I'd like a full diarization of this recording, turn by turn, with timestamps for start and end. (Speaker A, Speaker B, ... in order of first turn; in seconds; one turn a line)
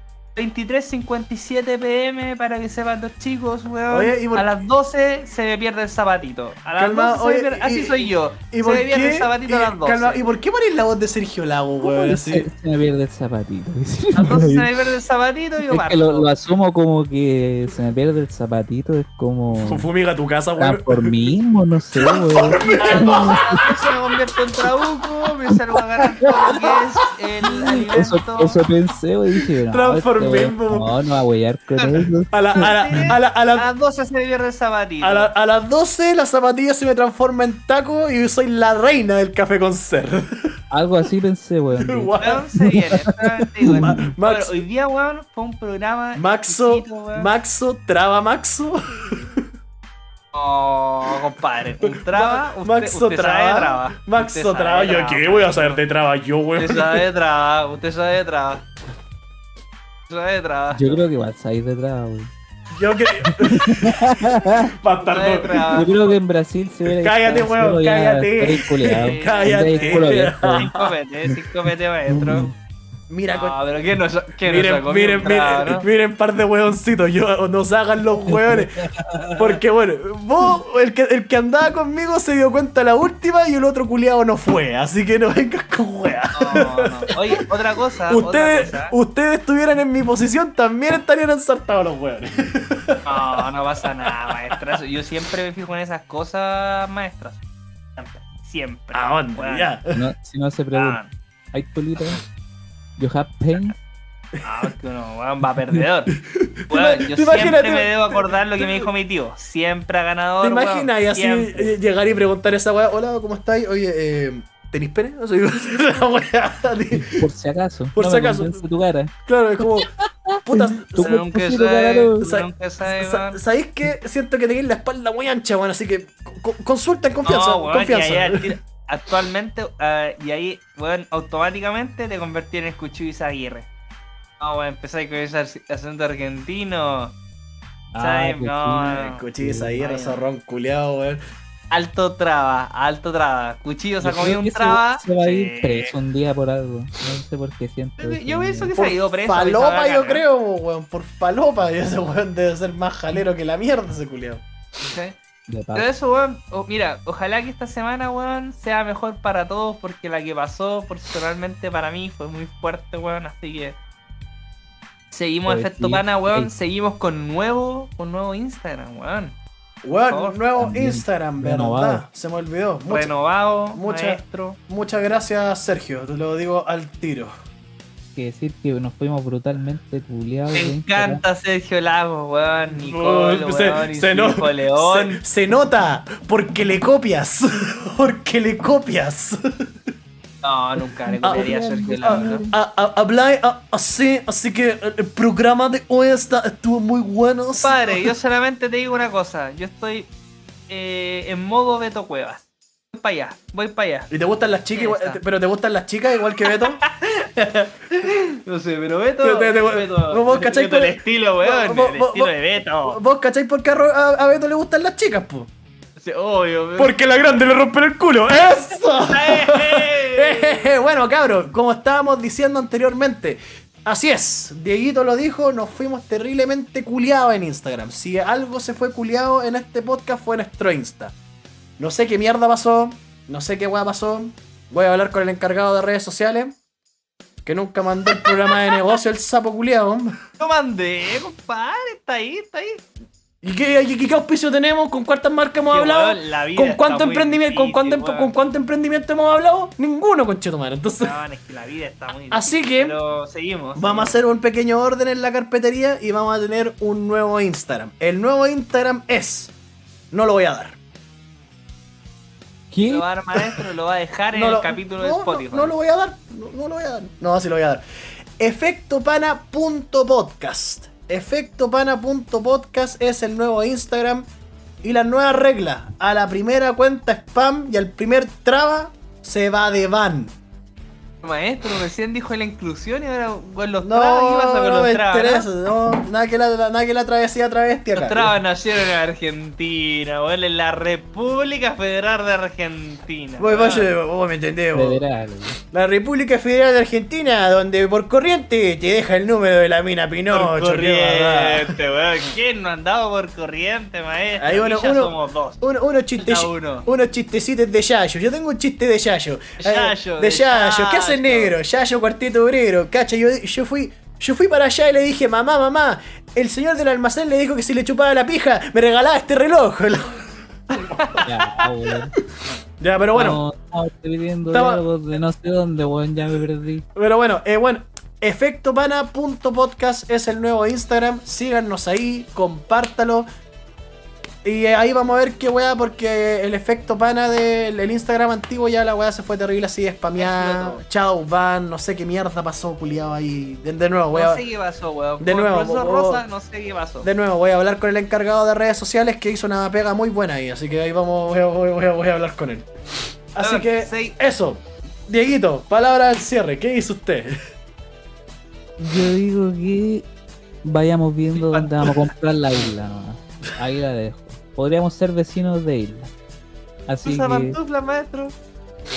Speaker A: 0.3-10.2
Speaker B: 3.9-4.5
Speaker B: 6.8-12.5
Speaker C: 11.8-14.7
Speaker A: 14.1-16.3
Speaker C: 15.7-19.9
Speaker B: 19.5-21.3
Speaker C: 20.6-23.7
Speaker B: 21.9-23.4
Speaker A: 22.6-28.6
Speaker C: 26.0-26.8
Speaker C: 27.5-32.6
Speaker B: 29.7-30.9
Speaker A: 31.8-35.3
Speaker B: 32.3-33.7
Speaker B: 35.0-40.3
Speaker C: 40.7-43.1
Speaker B: 41.8-42.5
Speaker A: 42.2-47.3
Speaker B: 43.6-44.6
Speaker C: 43.6-44.1
Speaker B: 46.1-49.4
Speaker A: 50.3-55.8
Speaker B: 51.8-57.0
Speaker A: 56.6-58.6
Speaker A: 60.1-61.0
Speaker C: 60.7-62.3
Speaker B: 62.7-65.8
Speaker C: 63.2-64.7
Speaker A: 65.0-66.2
Speaker C: 65.7-70.7
Speaker B: 66.9-70.9
Speaker A: 69.0-72.5
Speaker C: 72.1-72.5
Speaker B: 73.1-73.6
Speaker A: 73.3-75.9
Speaker B: 74.4-78.7
Speaker C: 78.3-79.5
Speaker B: 79.4-87.4
Speaker A: 86.3-88.9
Speaker B: 88.1-94.6
Speaker A: 93.0-97.4
Speaker A: 98.0-99.7
Speaker B: 98.9-100.0
Speaker C: 99.9-101.0
Speaker A: 100.7-101.1
Speaker C: 101.5-102.2
Speaker C: 103.0-103.8
Speaker B: 104.3-104.7
Speaker A: 104.4-106.1
Speaker B: 106.3-108.9
Speaker A: 106.7-111.7
Speaker B: 110.4-117.2
Speaker C: 116.9-119.1
Speaker B: 118.0-118.6
Speaker B: 119.2-119.9
Speaker C: 120.0-122.3
Speaker B: 120.4-121.2
Speaker A: 121.0-123.4
Speaker B: 122.2-128.5
Speaker A: 127.2-133.7
Speaker A: 134.4-137.1
Speaker C: 137.9-139.8
Speaker A: 138.0-139.2
Speaker B: 138.9-141.2
Speaker A: 139.8-140.2
Speaker A: 141.7-145.9
Speaker C: 144.0-148.7
Speaker A: 148.0-150.2
Speaker B: 148.7-154.4
Speaker A: 154.8-155.2
Speaker C: 155.5-155.9
Speaker A: 155.7-163.8
Speaker A: 165.1-169.4
Speaker C: 165.4-166.5
Speaker B: 169.8-173.1
Speaker A: 170.1-170.4
Speaker C: 170.6-172.0
Speaker A: 172.9-174.6
Speaker B: 173.7-177.3
Speaker C: 178.1-181.2
Speaker A: 180.5-185.2
Speaker B: 182.8-189.4
Speaker A: 190.4-192.4
Speaker B: 191.2-198.1
Speaker C: 191.8-192.5
Speaker A: 197.6-200.1
Speaker A: 200.7-204.1
Speaker B: 204.1-206.8
Speaker A: 204.7-205.2
Speaker A: 206.4-213.0
Speaker B: 209.2-215.5
Speaker A: 216.0-217.0
Speaker B: 216.8-231.1
Speaker A: 219.0-220.7
Speaker B: 231.8-236.6
Speaker B: 237.4-240.2
Speaker A: 240.4-242.8
Speaker B: 243.4-251.1
Speaker A: 245.7-248.3
Speaker A: 250.9-254.2
Speaker B: 252.3-253.0
Speaker B: 253.8-259.5
Speaker B: 260.1-260.8
Speaker C: 262.7-263.0
Speaker A: 262.8-265.7
Speaker B: 264.3-267.8
Speaker B: 268.4-274.3
Speaker B: 274.8-280.3
Speaker A: 281.2-285.4
Speaker B: 283.8-288.3
Speaker A: 287.9-293.9
Speaker B: 293.4-295.0
Speaker C: 294.7-295.6
Speaker B: 295.7-301.8
Speaker A: 300.3-305.6
Speaker B: 304.4-320.2
Speaker A: 306.1-306.9
Speaker A: 309.6-311.6
Speaker A: 320.7-321.3
Speaker B: 320.9-321.3
Speaker C: 321.2-322.1
Speaker B: 322.8-323.4
Speaker C: 323.1-326.8
Speaker B: 324.5-324.8
Speaker B: 326.9-333.3
Speaker B: 334.4-344.4
Speaker A: 340.1-340.8
Speaker A: 344.1-347.1
Speaker B: 345.2-346.2
Speaker B: 347.0-352.7
Speaker B: 353.3-357.3
Speaker A: 353.4-354.1
Speaker C: 358.8-360.0
Speaker C: 360.6-366.1
Speaker A: 361.3-362.1
Speaker C: 366.9-367.6
Speaker A: 367.0-368.3